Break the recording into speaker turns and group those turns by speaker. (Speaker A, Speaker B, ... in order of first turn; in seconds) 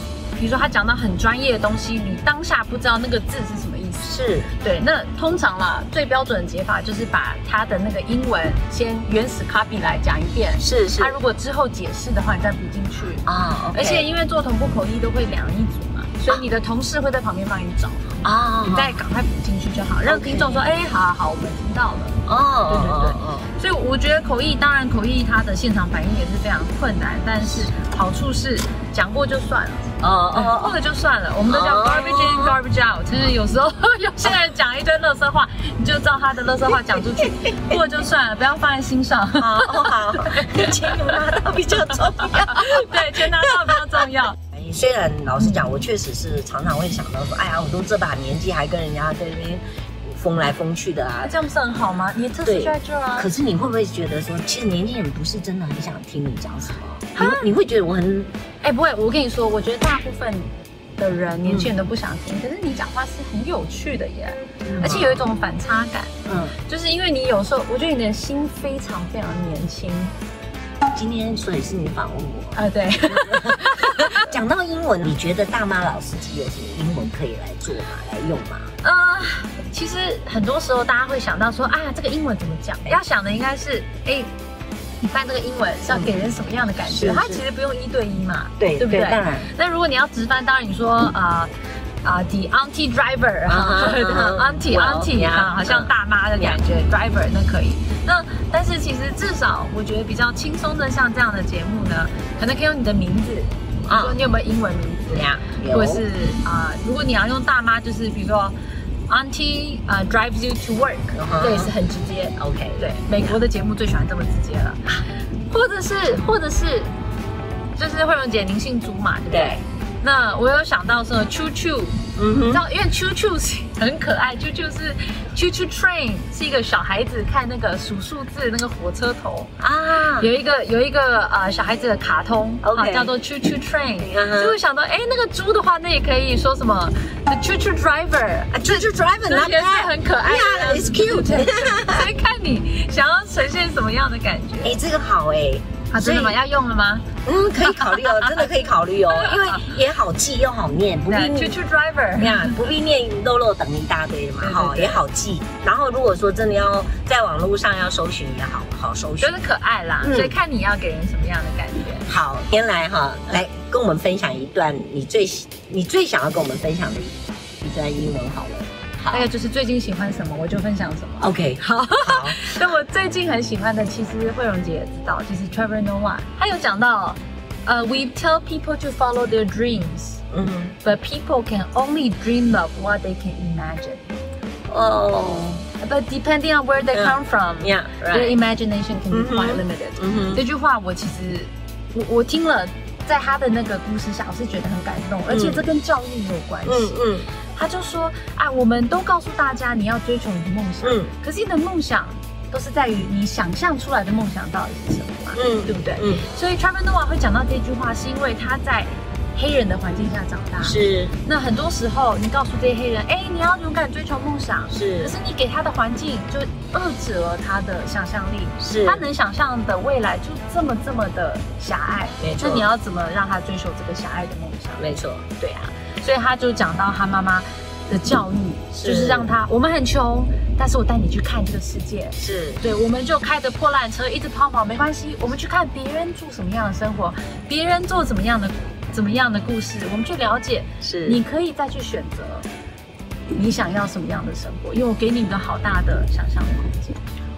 Speaker A: 0.4-41.2, 42.2-44.4, 51.2-53.3, 57.1-57.5, 58.6-70.1, 72.5-74.3, 78.8-84.3, 85.0-91.5, 92.0-108.6, 109.1-116.9, 117.8-129.5, 130.2-144.8, 145.9-147.1, 147.6-148.4, 149.1-149.6, 151.1-152.7, 154.4-155.0, 159.2-162.1, 169.1-180.2, 180.8-184.1, 185.8-197.0, 197.6-242.5, 243.3-247.0
Speaker B: 4.0-4.5, 10.6-11.2, 13.2-14.1, 18.2-19.0, 20.1-20.6, 22.3-23.5, 30.0-30.8, 31.5-32.6, 39.4-43.3, 44.5-51.4, 52.5-58.3, 61.5-61.7, 64.7-65.2, 66.3-66.5, 71.0-78.7, 86.9-87.4, 88.6-89.5, 93.5-96.6, 103.9-104.2, 105.1-106.1, 111.1-111.7, 112.4-112.9, 119.3-119.6, 122.2-122.6, 129.6-130.3, 132.6-133.1, 134.0-134.6, 138.5-142.1, 144.6-146.4, 147.2-151.6, 152.2-159.4, 160.0-160.3, 162.1-169.3, 171.2-172.5, 180.3-180.7, 184.7-185.7, 186.9-188.4, 189.1-190.4, 195.3-195.7, 196.7-197.3, 200.8-201.1, 205.3-206.2, 210.6-211.1, 214.7-215.1, 218.6-219.1, 222.2-222.7, 224.8-225.2, 228.7-229.3, 232.2-232.6, 240.8-241.2